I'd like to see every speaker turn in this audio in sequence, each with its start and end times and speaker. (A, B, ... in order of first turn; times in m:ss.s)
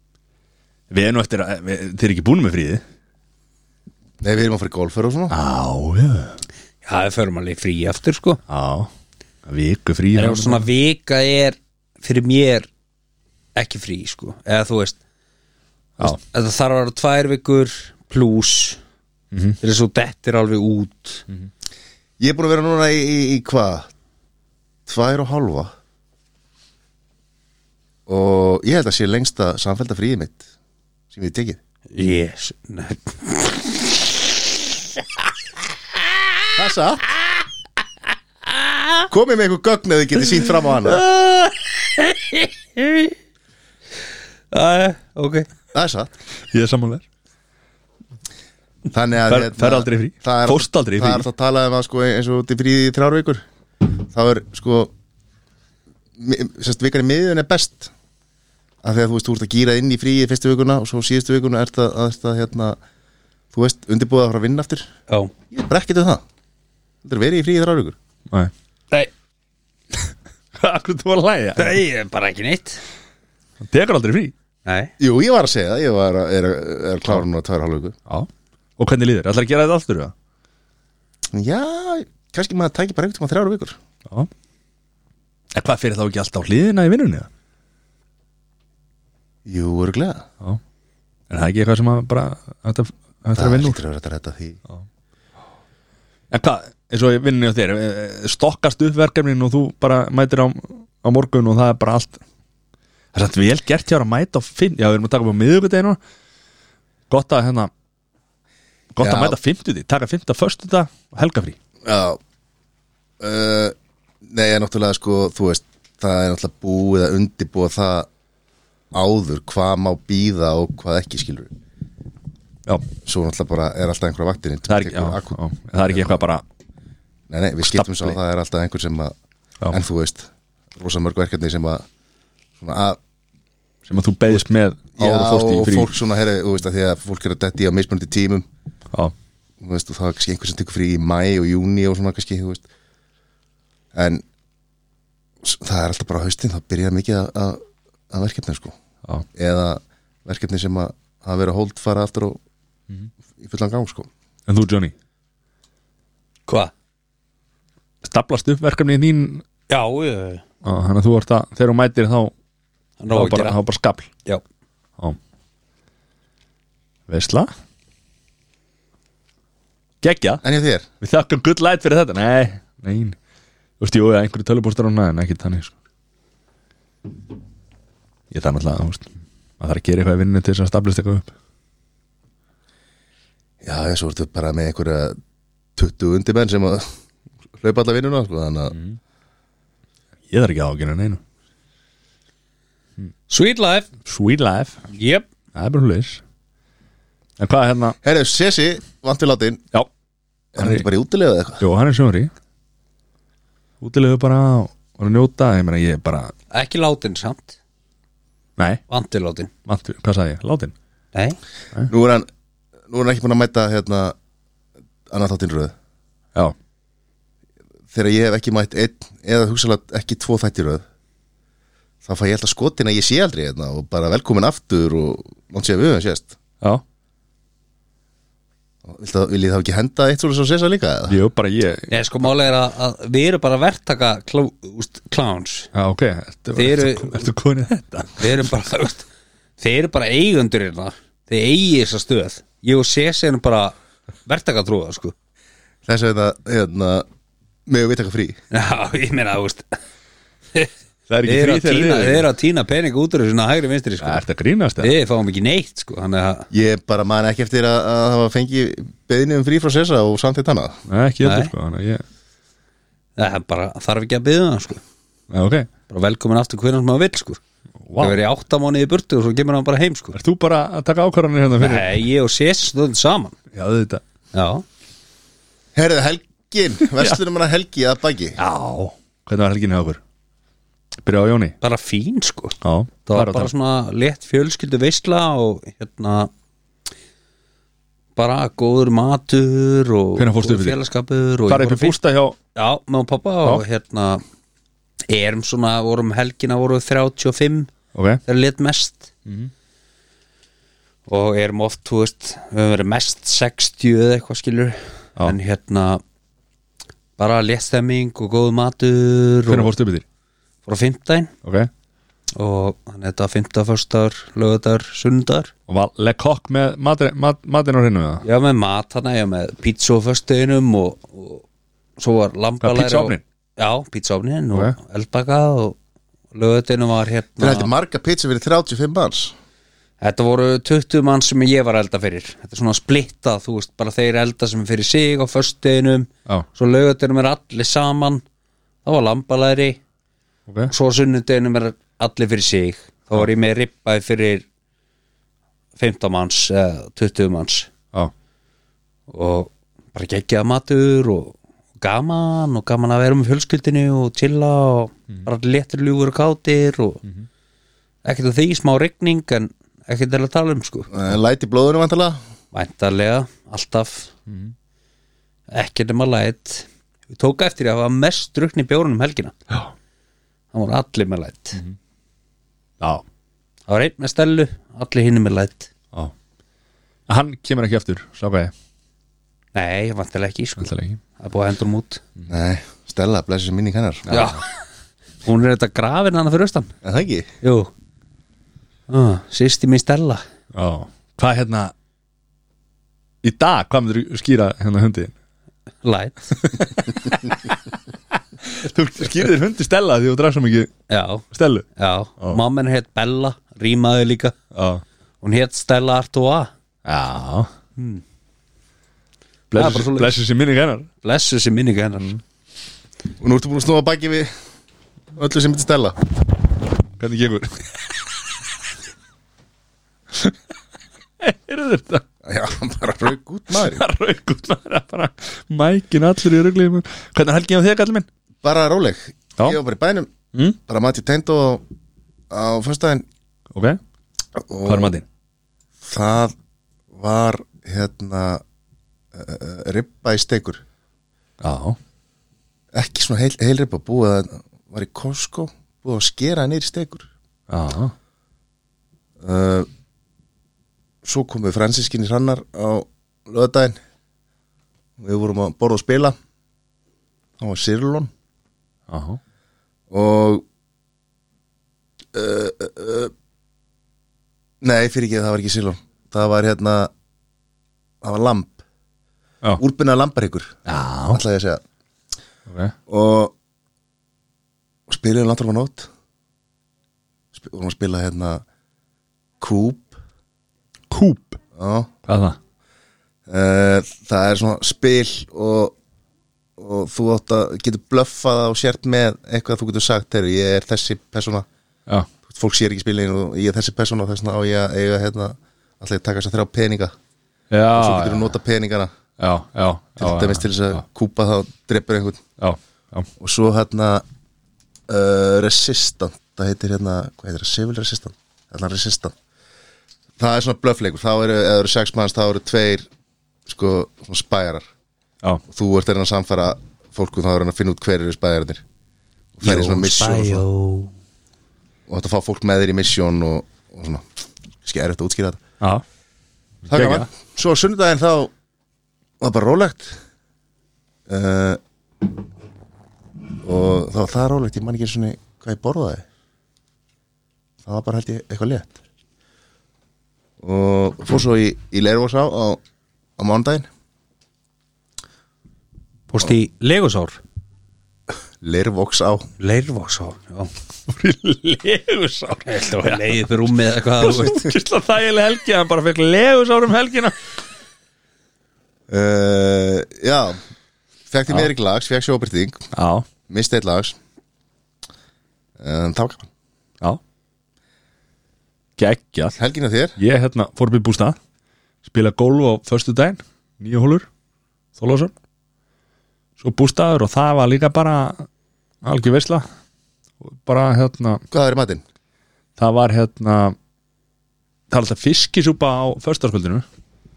0:00.9-0:02.8 A
0:04.2-0:05.4 B
0:05.3-0:06.4 A
0:06.8-0:08.4 C
0:08.5-0:08.9 A
0:09.4-0:10.7 A
0:10.1-0:12.7 C
0:13.6-0:15.0 C
0:16.0-0:18.8 C
0:19.3-0:19.6 A
0:19.6-0:21.2 C
0:22.2-0:23.9 B
0:24.9-0:25.7 B
0:28.1-0:30.4 B
0:31.1-0:31.6 B
0:31.9-0:34.4 C
0:36.6-0:37.0 B
0:38.8-0:39.0 C
0:39.1-0:41.0 B
0:40.8-0:43.1 C
0:44.5-0:45.5 C
0:45.7-0:46.1 B
0:46.5-0:47.0 A
0:48.9-0:54.9 B
0:49.2-0:51.3 A
0:56.2-0:57.9 B
0:58.8-1:02.8 B
1:03.5-1:04.9 B
1:05.5-1:06.2 B
1:07.0-1:08.0 B
1:10.5-1:11.8 A
1:11.6-1:12.8 C
1:13.6-1:14.3 A
1:14.6-1:14.9 C
1:15.0-1:18.0 B
1:18.1-1:20.1 A
1:21.3-1:23.8 B
1:25.5-1:27.3 A
1:29.4-1:30.2 B
1:31.3-1:33.8 A
1:33.4-1:34.6 B
1:36.3-1:42.2 A
1:43.1-1:46.0 A
1:47.1-1:47.7 A
1:48.9-1:51.6 A
1:49.0-1:49.4 B
1:51.8-1:52.2 B
1:53.2-1:58.1 B
1:58.9-2:01.5 B
2:03.0-2:05.4 B
2:04.7-2:06.4 A
2:07.3-2:09.1 B
2:07.6-2:08.2 A
2:09.7-2:11.8 B
2:12.6-2:13.0 B
2:13.9-2:15.9 A
2:15.0-2:18.4 B
2:19.6-2:22.6 B
2:23.9-2:24.2 B
2:25.4-2:28.8 B
2:29.3-2:32.4 B
2:33.4-2:34.1 B
2:34.5-2:34.9 A
2:36.5-2:36.7 C
2:38.0-2:39.4 A
2:39.7-2:40.4 C
2:40.6-2:42.3 A
2:43.0-2:43.6 C
2:43.1-2:44.1 A
2:47.1-2:47.5 A
2:50.0-2:50.4 A
2:50.4-2:50.9 B
2:51.0-2:53.2 A
2:53.8-2:55.7 A
2:58.3-3:01.3 A
3:03.6-3:05.2 B
3:05.8-3:06.9 B
3:07.6-3:08.8 B
3:10.3-3:11.2 A
3:13.3-3:13.9 C
3:14.0-3:14.8 A
3:14.9-3:15.3 C
3:15.5-3:16.2 A
3:17.4-3:18.0 A
3:18.0-3:19.6 B
3:20.5-3:20.8 A
3:20.6-3:21.6 B
3:21.6-3:22.3 A
3:23.8-3:26.3 A
3:26.5-3:27.6 C
3:28.6-3:28.8 A
3:28.9-3:29.5 C
3:29.7-3:30.7 A
3:31.9-3:32.3 B
3:32.9-3:34.1 B
3:35.1-3:35.7 B
3:37.9-3:40.8 B
3:42.0-3:46.4 B
3:48.8-3:51.2 B
3:51.1-3:52.0 A
3:51.9-3:55.7 C
3:55.7-3:58.4 A
3:56.5-3:57.2 C
3:58.2-3:59.0 C
3:59.6-4:03.7 C
4:04.2-4:05.1 C
4:05.8-4:07.0 B
4:07.7-4:08.4 B
4:08.5-4:09.8 C
4:11.1-4:12.3 A
4:11.2-4:14.2 C
4:14.0-4:14.9 A
4:14.8-4:16.5 C
4:16.5-4:20.8 B
4:20.9-4:22.0 A
4:21.2-4:21.5 C
4:23.2-4:24.8 C
4:25.3-4:25.7 A
4:25.9-4:27.4 C
4:27.8-4:28.2 A
4:28.0-4:30.2 C
4:30.1-4:32.0 A
4:31.6-4:33.3 C
4:33.5-4:34.0 A
4:34.3-4:34.6 C
4:35.7-4:38.4 B
4:38.4-4:40.0 A
4:41.0-4:41.6 A
4:41.6-4:46.3 C
4:42.6-4:43.5 A
4:48.2-4:52.0 C
4:50.2-4:50.8 A
4:51.5-4:52.4 A
4:52.5-4:54.2 C
4:55.1-4:57.7 C
4:57.9-4:58.2 A
4:58.2-4:59.1 C
4:59.2-4:59.5 A
5:01.1-5:06.0 C
5:07.2-5:09.7 C
5:09.5-5:10.0 A
5:10.6-5:11.3 C
5:11.4-5:11.7 A
5:12.4-5:15.5 C
5:15.7-5:18.2 A
5:18.2-5:21.4 C
5:22.0-5:25.8 C
5:22.6-5:23.2 A
5:26.3-5:27.7 C
5:27.4-5:29.3 B
5:30.0-5:38.2 C
5:38.8-5:39.8 C
5:40.7-5:44.4 C
5:45.8-5:47.7 C
5:49.1-5:57.0 C
5:58.0-6:00.9 C
6:00.9-6:02.2 B
6:02.5-6:04.1 C
6:04.3-6:04.5 A
6:05.5-6:09.4 C
6:10.5-6:11.6 C
6:13.7-6:15.7 C
6:17.1-6:18.5 A
6:19.5-6:22.0 C
6:20.6-6:21.0 A
6:22.3-6:24.1 B
6:24.0-6:24.4 A
6:24.1-6:24.5 C
6:25.2-6:26.7 C
6:26.8-6:27.3 B
6:27.4-6:27.7 C
6:28.9-6:30.2 C
6:30.5-6:31.7 A
6:33.2-6:35.1 A
6:35.8-6:36.6 C
6:36.4-6:37.6 A
6:38.4-6:40.7 A
6:40.9-6:41.2 C
6:41.3-6:41.6 A
6:41.8-6:44.4 C
6:44.5-6:44.8 A
6:45.2-6:46.5 C
6:46.8-6:47.5 A
6:47.8-6:48.0 C
6:49.5-6:50.9 A
6:49.5-6:50.1 C
6:51.0-6:52.1 C
6:53.2-6:54.3 B
6:55.1-6:56.0 B
6:57.0-6:57.9 A
7:01.2-7:02.0 A
7:02.2-7:03.8 B
7:03.6-7:08.0 A
7:08.4-7:10.1 B
7:10.7-7:11.6 B
7:12.3-7:13.0 B
7:14.4-7:15.0 B
7:14.6-7:15.0 A
7:15.8-7:16.3 B
7:16.9-7:18.4 B
7:19.1-7:20.6 B
7:21.4-7:21.8 A
7:22.7-7:27.1 B
7:27.5-7:27.9 A
7:29.2-7:29.7 B
7:31.0-7:33.8 B
7:35.0-7:36.2 B
7:37.4-7:38.1 B
7:38.9-7:39.2 A
7:39.9-7:40.4 B
7:42.1-7:43.1 B
7:44.6-7:46.9 B
7:48.0-7:48.6 B
7:49.6-7:50.6 B
7:50.7-7:51.2 A
7:51.1-7:51.6 B
7:52.5-7:52.7 A
7:52.9-7:53.3 B
7:54.9-7:55.9 B
7:57.3-7:58.4 B
7:59.4-8:00.0 B
8:00.9-8:01.4 A
8:01.5-8:01.9 B
8:02.1-8:02.4 A
8:03.3-8:05.7 B
8:06.6-8:11.4 B
8:12.3-8:16.9 B
8:17.5-8:18.3 A
8:17.7-8:18.9 B
8:19.2-8:20.8 A
8:20.0-8:22.2 B
8:22.4-8:23.1 A
8:23.2-8:24.0 B
8:24.9-8:29.1 B
8:30.2-8:32.9 B
8:33.5-8:34.6 B
8:35.5-8:38.6 B
8:39.4-8:40.4 B
8:39.4-8:40.9 C
8:41.9-8:44.0 B
8:44.6-8:45.4 B
8:46.7-8:47.1 A
8:46.7-8:48.3 B
8:49.2-8:50.0 B
8:51.1-8:51.6 B
8:53.4-8:56.0 B
8:57.6-8:58.8 B
9:00.4-9:02.6 B
9:03.2-9:03.7 B
9:06.1-9:07.2 C
9:08.4-9:09.3 B
9:09.4-9:10.5 C
9:10.9-9:13.2 A
9:12.4-9:14.5 C
9:14.0-9:17.2 A
9:18.9-9:20.4 B
9:21.1-9:22.6 B
9:22.7-9:23.1 A
9:23.3-9:24.0 B
9:25.6-9:26.3 B
9:28.8-9:29.4 A
9:29.4-9:30.0 B
9:30.0-9:31.2 A
9:31.8-9:34.1 A
9:34.8-9:35.1 A
9:36.4-9:38.3 A
9:38.8-9:39.4 A
9:40.2-9:41.2 A
9:41.3-9:41.8 B
9:42.6-9:43.6 A
9:44.7-9:46.6 A